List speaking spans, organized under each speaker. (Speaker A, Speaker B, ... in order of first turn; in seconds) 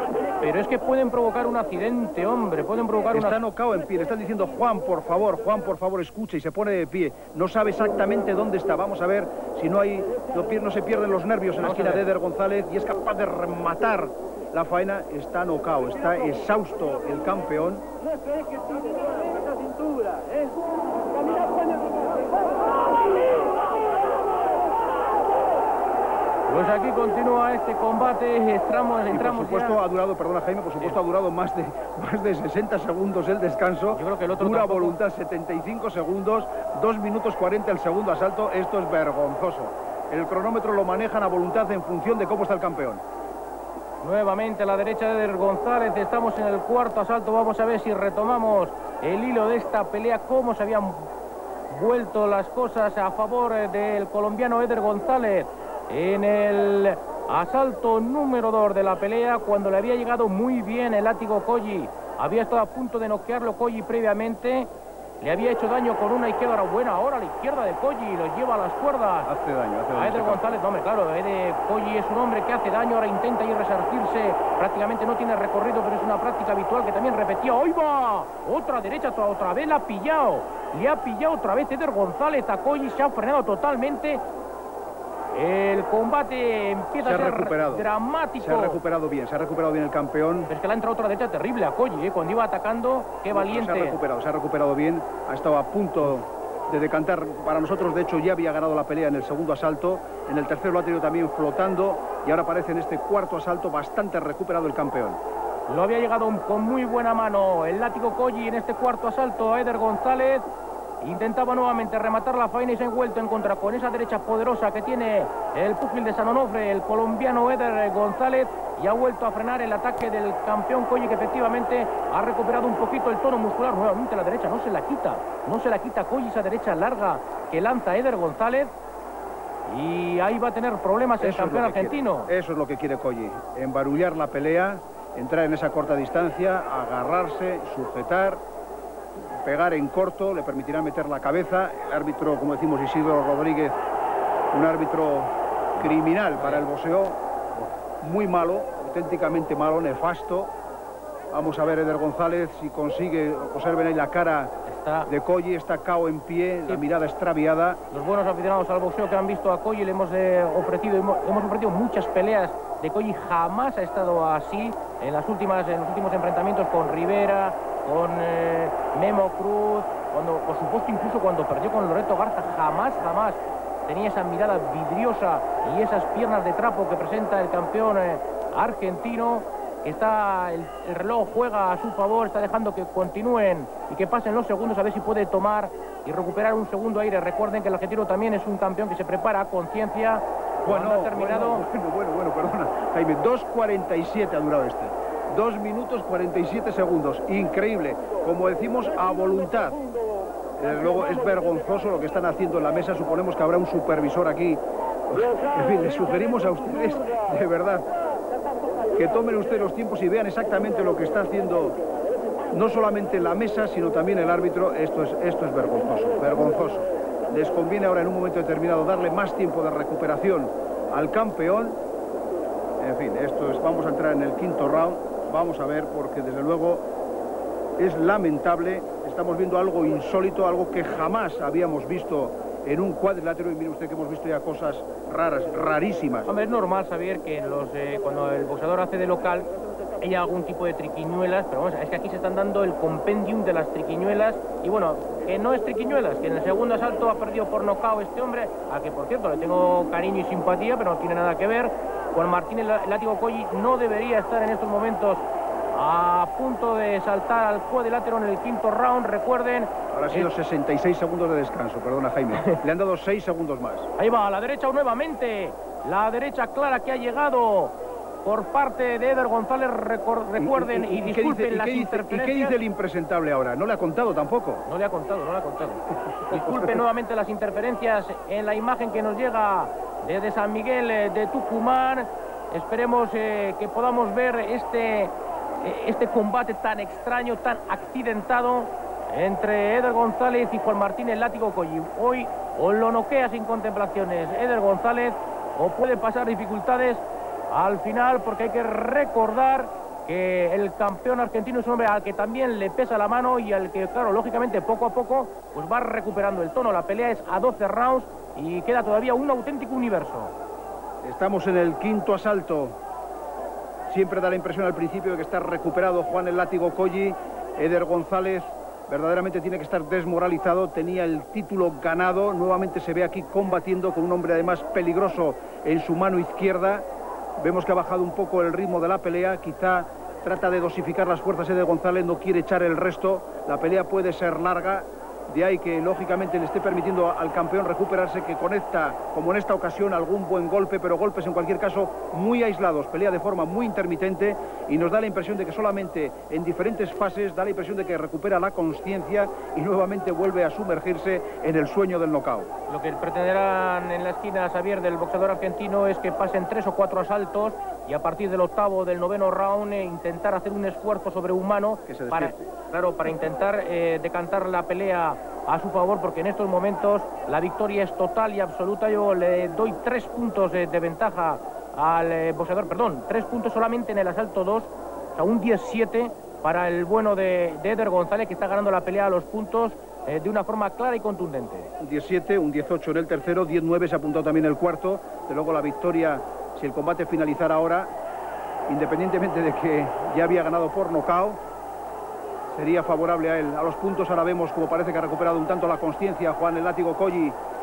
Speaker A: 0.4-3.4, 11.6-12.0, 26.5-29.8, 33.9-35.0, 44.0-51.0, 51.7-64.7, 65.2-69.3, 69.9-84.2, 85.3-88.8, 90.5-94.0, 105.7-110.4, 111.0-128.7, 129.7-132.3, 145.7-146.6, 154.7-155.1, 157.9-191.6, 236.2-260.3, 264.0-272.6, 274.6-310.3, 352.7-381.7
Speaker B: 3.1-17.8, 29.1-43.0, 69.2-70.6, 87.0-87.9, 88.4-90.5, 93.3-105.2, 131.2-138.4, 139.3-143.8, 144.5-150.5, 151.3-154.5, 155.1-157.8, 190.6-199.8, 200.6-207.9, 208.9-211.8, 212.5-221.8, 222.8-226.8, 227.8-236.3, 259.9-263.9, 270.4-274.6, 276.3-276.7, 311.0-312.8, 313.9-326.8, 327.4-352.5, 361.9-362.5, 381.8-387.9, 388.7-391.4, 392.5-397.4